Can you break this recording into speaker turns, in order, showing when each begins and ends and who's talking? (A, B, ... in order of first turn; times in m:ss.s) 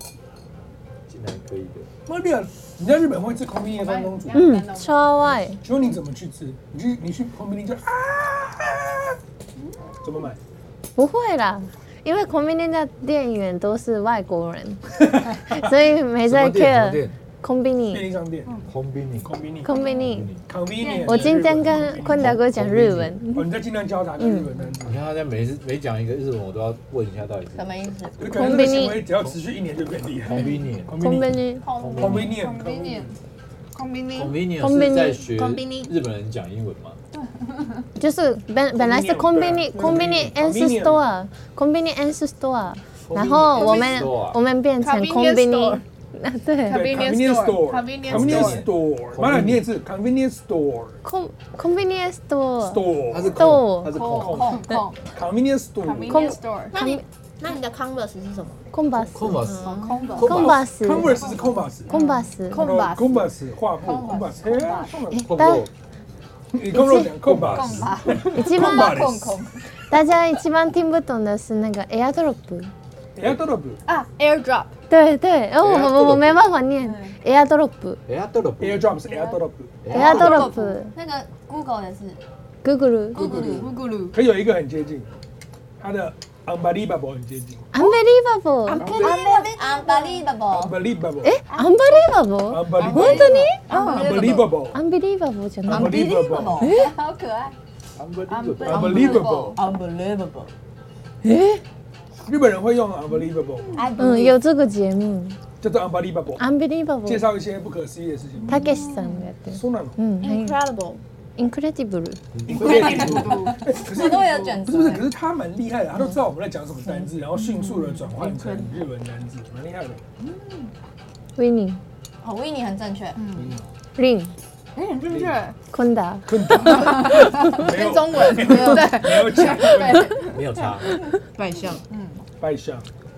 0:01.1-0:01.9 A
0:02.0-0:04.6 B
0:03.6-0:05.3 C
0:04.3-0:05.6 D
0:05.6-0:09.2 B
0:09.6-0:10.3 C
0:10.0-0:10.4 B
0:11.0-0:18.1 D
0:16.2-0:17.2 A
0:17.9-0:18.6 B
0:18.4-0:18.7 C
0:18.7-0:19.4 A
0:19.2-0:19.7 B
0:19.6-0:20.3 D
0:19.7-0:20.0 C
0:20.0-0:20.4 A
0:20.4-0:22.7 B
0:20.8-0:21.4 C
0:21.0-0:23.5 D
0:22.1-0:23.1 A
0:23.2-0:25.0 B
0:24.2-0:24.5 D
0:24.8-0:27.7 A
0:27.5-0:28.4 E
0:28.2-0:31.4 B
0:28.3-0:29.0 D
0:30.3-0:31.2 A
0:31.0-0:31.7 D
0:31.6-0:32.3 E
0:31.7-0:32.4 A
0:31.9-0:33.1 B
0:32.2-0:33.2 C
0:33.7-0:34.4 C
0:34.1-0:37.0 A
0:34.5-0:35.2 D
0:35.3-0:35.9 E
0:37.1-0:37.9 C
0:38.0-0:47.0 D
0:38.7-0:41.0 B
0:43.0-0:44.4 A
0:43.6-0:44.0 C
0:44.8-0:45.8 C
0:46.7-0:51.0 B
0:46.7-0:48.5 C
0:48.0-0:49.6 A
0:51.0-0:54.0 D
0:52.6-0:56.3 B
0:53.1-0:54.5 A
0:53.9-0:54.7 E
0:54.2-0:55.0 C
0:55.8-0:56.7 C
0:56.1-0:57.0 D
0:56.7-0:58.6 E
0:58.7-0:59.4 D
0:59.1-1:00.6 A
0:59.4-1:00.2 E
0:59.6-1:04.9 C
1:00.2-1:01.3 D
1:00.3-1:01.9 B
1:01.9-1:02.6 D
1:02.5-1:05.4 B
1:05.1-1:05.7 D
1:05.2-1:05.7 A
1:06.5-1:09.4 B
1:06.7-1:07.1 D
1:07.2-1:08.1 A
1:07.5-1:09.6 C
1:08.0-1:08.3 E
1:08.3-1:09.1 D
1:09.9-1:12.7 D
1:13.2-1:13.8 B
1:13.8-1:14.7 C
1:14.9-1:18.0 D
1:15.6-1:16.4 A
1:16.8-1:17.2 C
1:18.1-1:18.9 A
1:18.6-1:19.9 B
1:19.0-1:20.8 C
1:19.8-1:20.3 A
1:19.9-1:20.9 D
1:19.9-1:22.2 E
1:22.6-1:23.5 D
1:23.1-1:23.6 E
1:23.1-1:24.2 C
1:23.2-1:25.1 B
1:25.8-1:27.6 B
1:27.7-1:29.0 D
1:28.7-1:30.8 E
1:28.8-1:29.2 A
1:28.8-1:30.2 C
1:30.5-1:31.4 B
1:31.2-1:36.9 D
1:32.5-1:34.8 B
1:32.7-1:33.6 E
1:33.5-1:34.5 C
1:35.6-1:36.7 B
1:35.7-1:37.0 E
1:36.7-1:37.5 C
1:38.0-1:39.3 A
1:38.3-1:39.6 C
1:38.6-1:39.6 B
1:38.7-1:40.5 E
1:41.2-1:41.6 D
1:42.2-1:43.8 B
1:43.6-1:43.9 C
1:43.7-1:44.4 E
1:44.0-1:45.4 D
1:45.6-1:46.4 B
1:46.4-1:47.3 D
1:47.0-1:48.8 B
1:48.5-1:49.3 C
1:48.5-1:50.6 D
1:49.5-1:50.0 B
1:50.2-1:51.0 C
1:51.4-1:52.4 D
1:52.4-1:53.5 A
1:52.4-2:00.0 B
1:52.5-1:54.6 C
1:53.7-1:55.1 E
1:57.4-1:58.7 C
2:00.2-2:00.7 C
2:01.4-2:01.8 D
2:02.2-2:03.2 E
2:03.2-2:03.5 C
2:03.3-2:03.7 B
2:04.0-2:04.3 D
2:04.8-2:05.6 C
2:05.1-2:05.4 B
2:05.7-2:07.0 D
2:06.3-2:10.1 B
2:06.6-2:12.2 C
2:10.3-2:11.0 A
2:11.4-2:11.8 E
2:12.4-2:12.9 B